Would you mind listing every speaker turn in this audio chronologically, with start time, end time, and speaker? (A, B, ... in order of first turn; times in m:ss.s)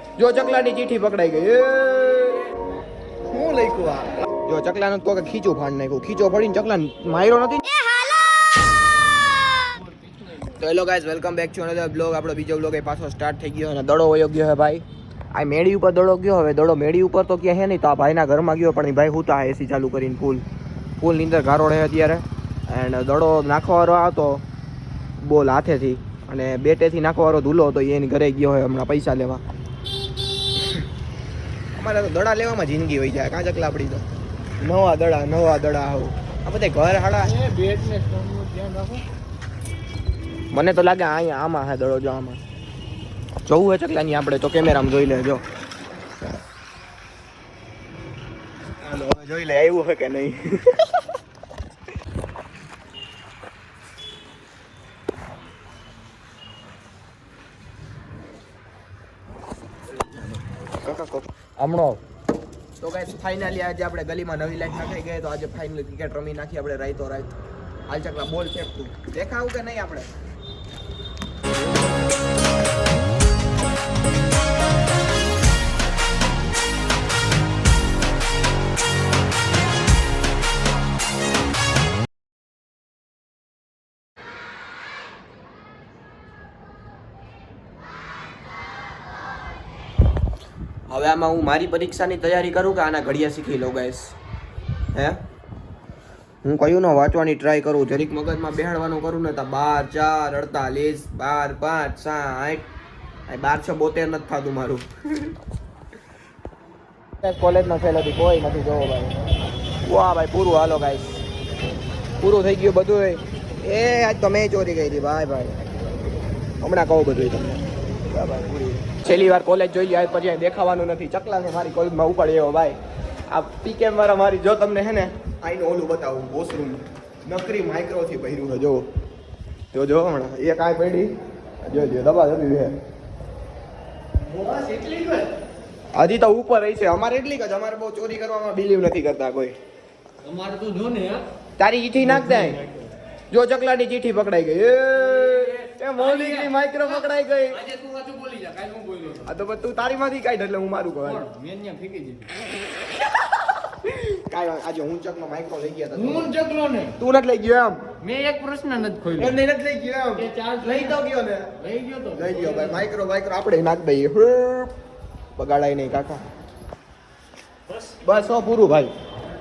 0:00.2-0:02.4 A
0:03.3-0:08.0 A
0:09.7-0:10.3 B
0:10.4-0:20.4 A
0:21.0-0:24.4 A
0:25.2-0:29.4 A
0:31.7-0:34.0 A
0:34.6-0:37.4 A
0:37.2-0:39.0 B
0:40.5-0:42.4 A
0:43.4-0:45.4 A
0:48.8-0:51.0 A
1:00.8-1:02.0 A
1:02.8-1:07.3 A
1:07.9-1:10.1 A
1:30.9-1:34.2 A
1:34.9-1:35.2 A
1:36.4-1:42.7 A
1:43.3-1:45.4 A
1:47.2-1:49.3 A
1:49.8-1:51.2 A
1:52.2-1:55.6 A
1:56.6-2:02.8 A
2:03.3-2:08.9 A
2:09.7-2:12.8 A
2:14.2-2:15.3 B
2:15.9-2:19.6 A
2:20.2-2:21.3 B
2:21.6-2:22.6 A
2:22.0-2:22.9 B
2:23.3-2:27.6 A
2:25.2-2:26.5 B
2:27.5-2:29.3 B
2:29.2-2:31.2 A
2:31.0-2:32.4 B
2:33.6-2:36.3 A
2:35.9-2:37.0 B
2:37.0-2:37.8 A
2:38.0-2:39.4 B
2:39.2-2:41.5 A
2:40.1-2:41.0 B
2:41.6-2:42.8 B
2:42.1-2:44.7 A
2:45.4-2:46.2 A
2:48.0-2:48.9 A